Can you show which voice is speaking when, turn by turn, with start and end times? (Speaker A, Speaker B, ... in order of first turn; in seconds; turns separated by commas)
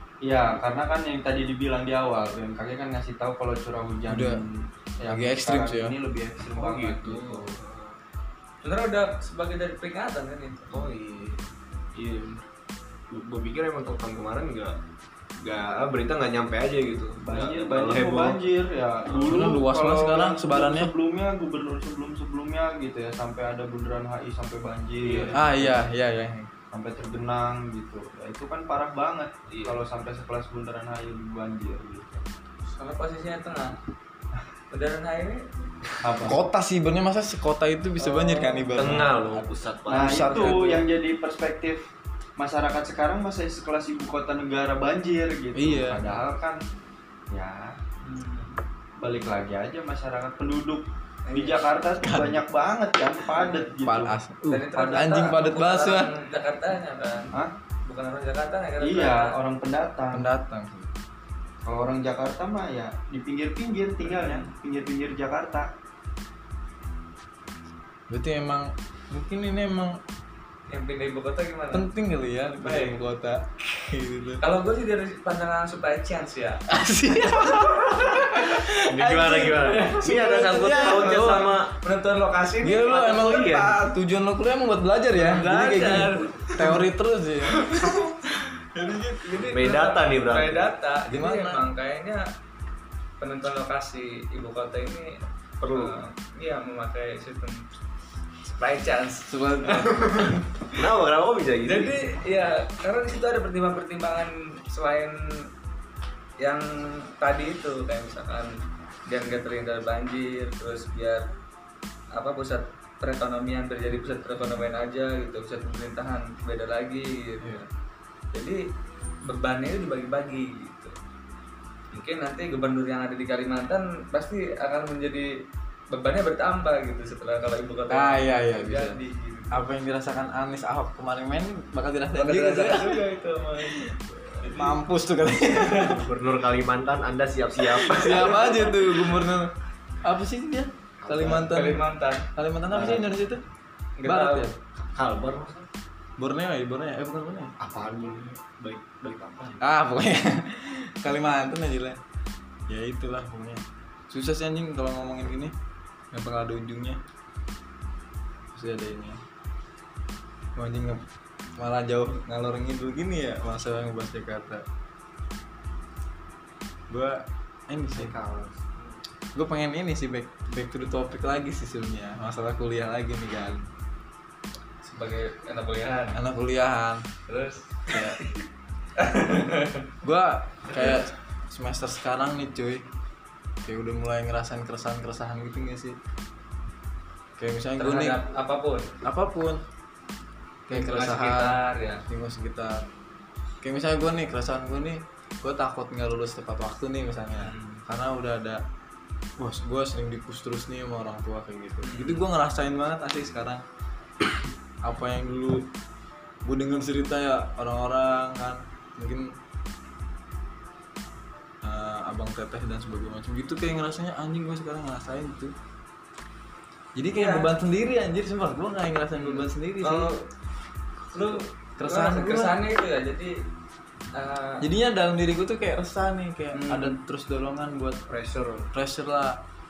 Speaker A: 0.2-7.6, Speaker B: 4.1-4.4, Speaker B: 5.1-5.9, Speaker C: 6.4-8.0, Speaker D: 8.6-10.7, Speaker C: 10.7-12.4, Speaker C: 13.1-14.8, Speaker C: 15.4-18.4, Speaker A: 17.2-25.9, Speaker C: 19.1-19.4, Speaker B: 19.3-20.9, Speaker C: 25.0-25.4, Speaker B: 25.3-26.5, Speaker A: 26.7-32.2, Speaker C: 29.5-29.8, Speaker D: 32.7-33.8, Speaker D: 34.7-35.4, Speaker A: 36.0-36.4, Speaker B: 36.2-40.8, Speaker D: 38.0-38.8, Speaker C: 38.7-40.6, Speaker A: 39.9-41.9, Speaker A: 42.4-46.6, Speaker B: 45.5-46.0, Speaker A: 47.3-47.8, Speaker D: 48.0-48.6, Speaker A: 49.0-54.1, Speaker D: 51.3-51.6, Speaker B: 52.0-52.4, Speaker B: 53.8-56.1, Speaker D: 54.5-57.3, Speaker D: 57.8-59.3, Speaker A: 58.8-60.3, Speaker B: 60.1-60.9, Speaker A: 61.6-65.7, Speaker D: 64.0-64.5, Speaker B: 68.1-70.0, Speaker D: 70.7-71.9, Speaker B: 71.7-74.4, Speaker D: 72.6-73.0, Speaker D: 74.4-76.6, Speaker B: 76.7-81.5, Speaker D: 77.5-78.5, Speaker C: 78.7-81.7, Speaker D: 79.6-83.7, Speaker B: 82.6-88.2, Speaker C: 83.1-83.6, Speaker D: 85.2-86.8, Speaker B: 88.7-89.4, Speaker D: 89.2-92.3, Speaker C: 89.3-90.7, Speaker B: 91.1-91.6, Speaker D: 93.2-97.7, Speaker C: 95.6-96.0, Speaker D: 98.4-100.7, Speaker B: 99.3-100.5, Speaker C: 100.7-102.0, Speaker D: 101.7-105.4, Speaker D: 106.4-108.5, Speaker D: 109.1-111.3, Speaker D: 112.1-117.7, Speaker D: 118.3-118.6, Speaker D: 119.2-120.9, Speaker D: 121.9-125.3, Speaker D: 125.9-129.6, Speaker B: 127.9-129.0, Speaker B: 129.5-133.0, Speaker D: 132.1-133.8, Speaker B: 133.6-136.1, Speaker D: 134.4-134.8, Speaker C: 135.7-138.6, Speaker B: 137.8-139.5, Speaker D: 138.0-138.9, Speaker B: 140.0-143.4, Speaker C: 141.0-141.6, Speaker D: 141.5-143.0, Speaker D: 144.0-144.5, Speaker B: 144.0-144.5, Speaker C: 144.7-145.7, Speaker B: 146.2-147.5, Speaker C: 147.6-149.6, Speaker B: 149.6-152.0, Speaker B: 152.7-155.5, Speaker B: 156.1-157.0, Speaker B: 158.5-159.2, Speaker B: 160.5-161.0, Speaker B: 161.6-164.6, Speaker B: 166.9-168.1, Speaker C: 167.9-168.9, Speaker B: 169.3-173.7, Speaker D: 174.8-176.2, Speaker B: 176.1-177.1, Speaker D: 177.3-178.3, Speaker B: 177.9-178.2, Speaker D: 179.0-179.8, Speaker B: 180.0-182.8, Speaker B: 183.6-186.0, Speaker B: 187.4-188.2, Speaker D: 187.8-188.9, Speaker B: 189.0-189.6, Speaker B: 190.7-192.8, Speaker D: 190.7-192.0, Speaker B: 193.6-198.6, Speaker D: 197.4-197.8, Speaker B: 199.4-203.6, Speaker D: 201.8-202.2, Speaker B: 204.8-205.7, Speaker B: 206.4-209.3, Speaker B: 211.6-215.5, Speaker B: 216.9-220.1, Speaker D: 217.1-217.5, Speaker D: 219.2-220.2, Speaker D: 221.1-223.4, Speaker B: 221.8-222.6, Speaker D: 224.1-224.7, Speaker B: 224.6-228.0, Speaker D: 226.5-226.9, Speaker C: 228.1-228.7, Speaker B: 228.7-229.4